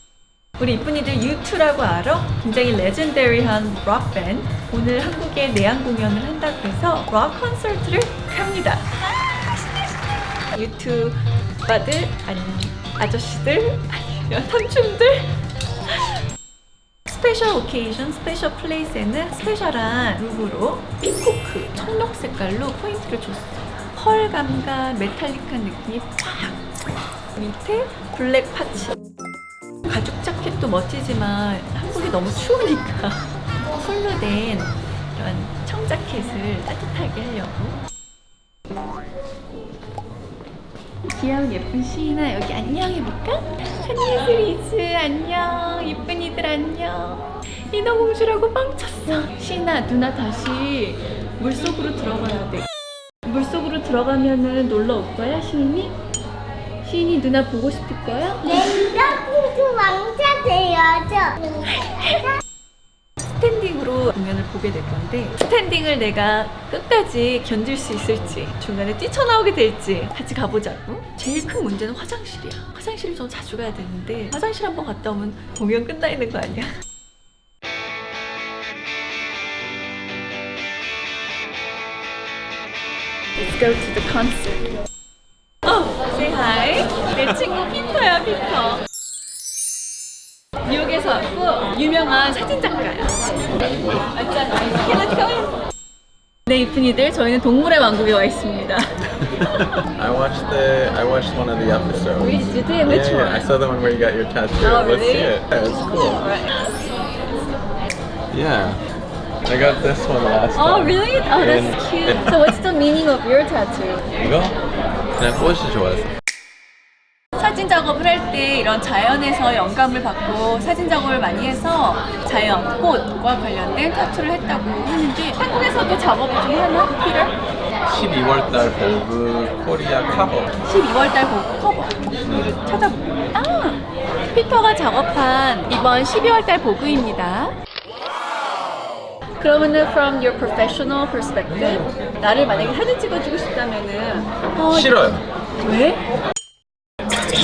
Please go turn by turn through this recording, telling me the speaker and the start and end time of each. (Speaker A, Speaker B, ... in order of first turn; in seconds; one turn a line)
Speaker A: 0.6-8.9
Speaker A: 10.5-16.2
Speaker A: 17.1-26.7
Speaker A: 27.3-29.0
Speaker A: 29.8-37.8
Speaker A: 41.1-52.7
Speaker A: 53.2-56.0
Speaker A: 56.8-58.9
Speaker B: 58.8-61.4
Speaker A: 61.6-62.4
Speaker A: 63.2-76.7
Speaker A: 83.4-84.7
Speaker A: 85.6-88.8
Speaker A: 90.6-95.6
Speaker A: 96.5-98.9
Speaker C: 100.0-106.3
Speaker A: 102.2-103.5
Speaker A: 104.6-106.6
Speaker C: 108.3-108.8
Speaker C: 109.4-112.3
Speaker A: 110.5-114.1
Speaker C: 114.2-114.6
Speaker C: 115.2-116.1
Speaker A: 117.3-127.3
Speaker C: 127.9-130.5
Speaker A: 130.6-137.6
Speaker C: 132.2-132.5
Speaker A: 139.4-146.0
Speaker C: 144.7-145.2